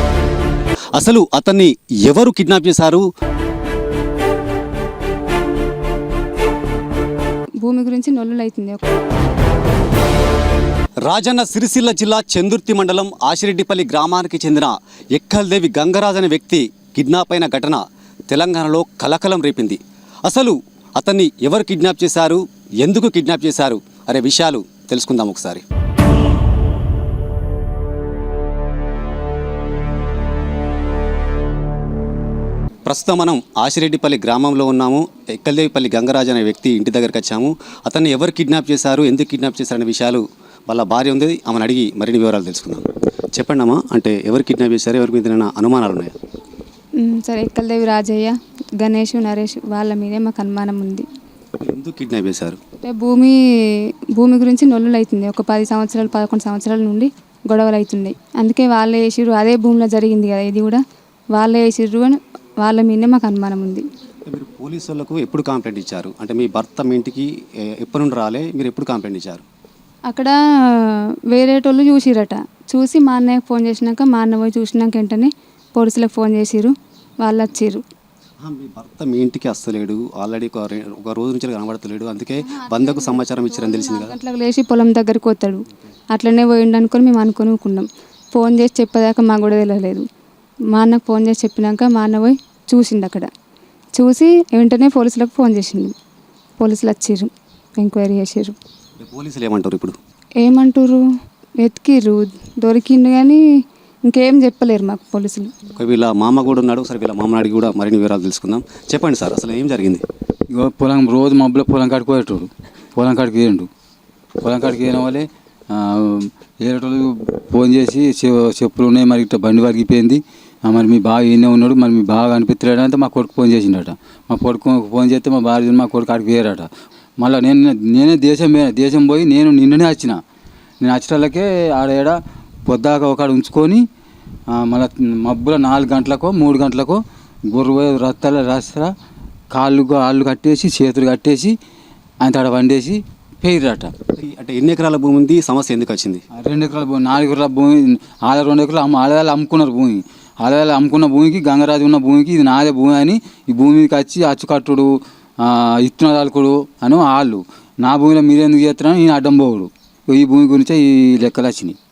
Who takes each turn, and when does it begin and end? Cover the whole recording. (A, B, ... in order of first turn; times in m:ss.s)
0:00.9-0:03.0 A
0:07.6-0:08.9 B
0:11.1-0:25.6 A
0:32.8-0:46.1 A
0:47.0-0:51.1 B
0:51.6-0:52.6 A
0:52.8-1:00.8 B
1:01.3-1:03.8 B
1:04.3-1:09.4 A
1:10.1-1:17.8 B
1:18.4-1:24.2 A
1:22.4-1:30.0 B
1:30.7-1:33.3 B
1:34.0-1:35.9 B
1:36.6-1:38.6 B
1:39.0-1:40.0 A
1:40.4-1:41.0 B
1:41.6-1:43.4 B
1:44.0-1:45.6 B
1:45.8-1:50.0 A
1:50.5-1:53.7 C
1:54.4-2:10.2 C
2:10.8-2:13.8 C
2:14.5-2:18.9 C
2:19.5-2:21.6 C
2:22.2-2:23.9 C
2:24.2-2:26.2 A
2:26.4-2:41.8 C